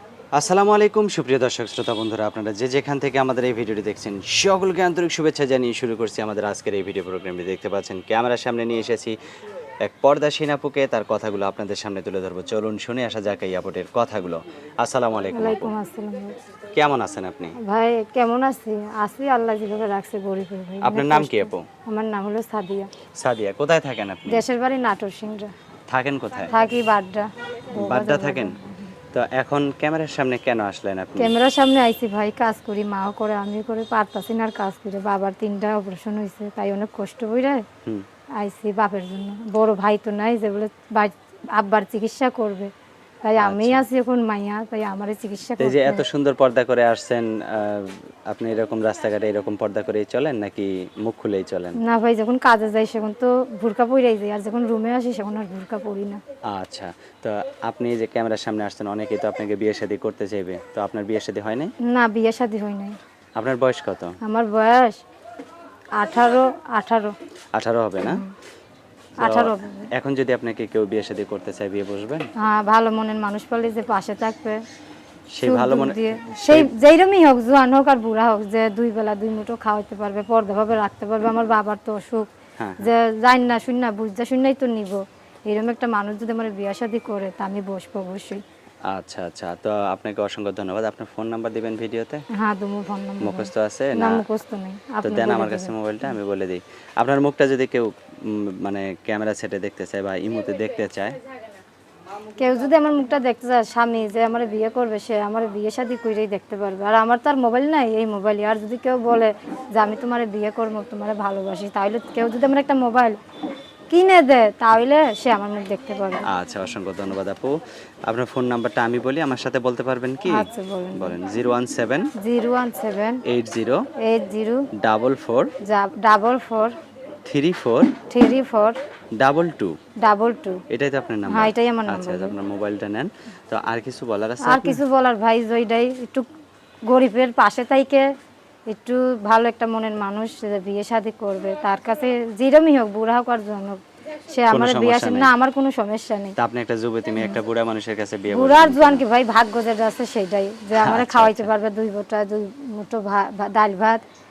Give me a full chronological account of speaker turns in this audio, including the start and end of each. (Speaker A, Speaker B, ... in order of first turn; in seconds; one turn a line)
Speaker A: 0.3-9.2
Speaker A: 9.8-15.7
Speaker B: 15.3-16.4
Speaker A: 16.7-17.6
Speaker B: 17.6-22.9
Speaker A: 20.8-21.7
Speaker A: 23.1-24.4
Speaker B: 24.3-25.5
Speaker A: 25.9-26.6
Speaker B: 26.5-28.9
Speaker A: 27.7-28.6
Speaker A: 29.1-31.3
Speaker B: 31.2-37.6
Speaker B: 38.4-42.7
Speaker B: 43.2-46.0
Speaker A: 43.4-43.9
Speaker A: 45.6-51.8
Speaker B: 51.8-56.2
Speaker A: 56.5-61.7
Speaker B: 61.8-63.0
Speaker A: 63.4-64.2
Speaker B: 64.2-65.0
Speaker B: 65.9-67.1
Speaker A: 67.5-68.2
Speaker B: 68.0-68.3
Speaker B: 69.2-69.8
Speaker A: 69.2-72.3
Speaker B: 72.4-74.6
Speaker A: 75.3-76.7
Speaker B: 75.4-82.3
Speaker A: 82.6-82.9
Speaker B: 82.8-88.4
Speaker A: 88.9-92.2
Speaker B: 92.3-95.7
Speaker A: 93.2-94.2
Speaker A: 95.0-101.2
Speaker B: 102.4-113.2
Speaker B: 113.9-116.3
Speaker A: 116.3-117.5
Speaker A: 118.0-122.1
Speaker B: 120.3-121.2
Speaker B: 122.2-123.2
Speaker A: 123.3-123.8
Speaker B: 124.0-124.7
Speaker A: 124.8-125.5
Speaker B: 125.6-126.7
Speaker A: 127.2-127.9
Speaker B: 128.1-128.8
Speaker A: 129.2-129.8
Speaker B: 130.0-130.6
Speaker A: 130.7-134.8
Speaker B: 131.3-132.3
Speaker B: 134.4-136.3
Speaker B: 136.9-138.0
Speaker B: 138.7-146.3
Speaker A: 144.5-145.3
Speaker A: 146.4-149.0
Speaker B: 148.3-154.0
Speaker A: 150.8-151.5